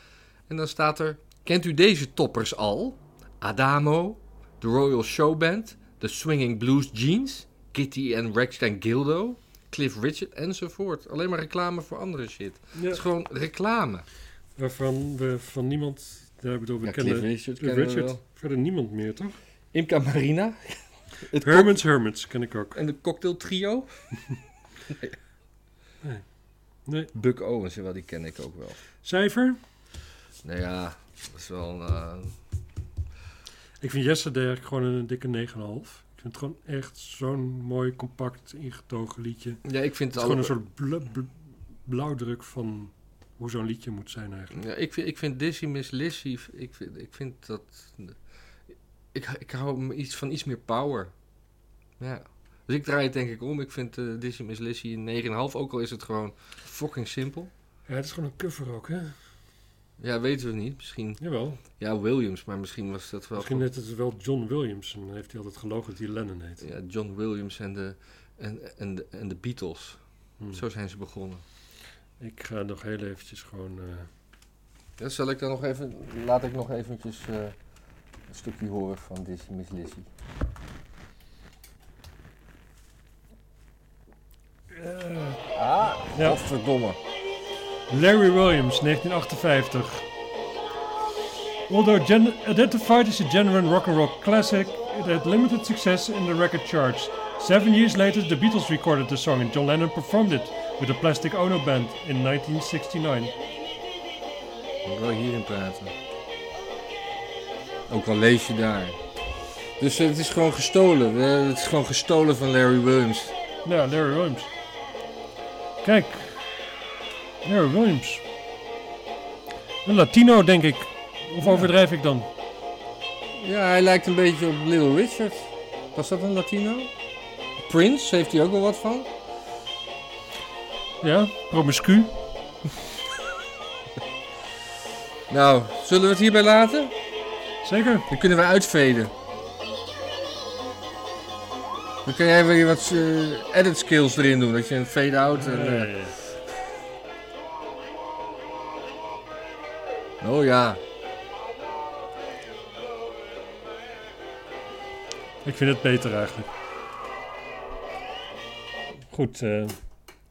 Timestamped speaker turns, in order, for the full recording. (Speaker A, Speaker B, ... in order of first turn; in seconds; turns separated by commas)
Speaker A: 0.5-14.1, Speaker B: 12.8-13.0, Speaker B: 14.6-19.4, Speaker A: 16.8-18.2, Speaker A: 19.7-21.8, Speaker B: 21.4-22.8, Speaker A: 22.8-23.9, Speaker B: 26.9-27.1, Speaker A: 27.1-28.8, Speaker B: 29.0-29.6, Speaker A: 30.4-32.3, Speaker B: 33.8-39.6, Speaker A: 39.6-40.5, Speaker B: 40.1-44.6, Speaker A: 44.5-48.2, Speaker A: 49.1-51.1, Speaker A: 52.0-57.5, Speaker B: 57.9-59.1, Speaker A: 60.0-61.2, Speaker B: 61.2-61.6, Speaker A: 61.8-63.7, Speaker B: 63.4-66.6, Speaker A: 66.6-70.0, Speaker A: 70.5-71.4, Speaker B: 72.2-74.1, Speaker A: 75.0-77.5, Speaker A: 78.3-80.1, Speaker B: 84.7-85.4, Speaker A: 85.5-87.0, Speaker B: 86.1-86.4, Speaker B: 87.9-90.1, Speaker B: 91.7-103.3, Speaker A: 104.8-105.9, Speaker A: 107.9-109.0, Speaker A: 109.8-113.3, Speaker B: 113.7-114.5, Speaker B: 115.8-116.4, Speaker B: 117.4-118.2, Speaker B: 119.8-122.3, Speaker A: 121.4-121.7, Speaker A: 123.4-126.9, Speaker A: 127.7-129.1, Speaker B: 131.0-132.1, Speaker A: 135.3-136.9, Speaker B: 137.6-138.1, Speaker A: 138.1-139.1, Speaker A: 142.1-145.9, Speaker B: 145.3-146.2, Speaker A: 150.2-150.8, Speaker B: 155.4-156.5, Speaker B: 159.1-159.8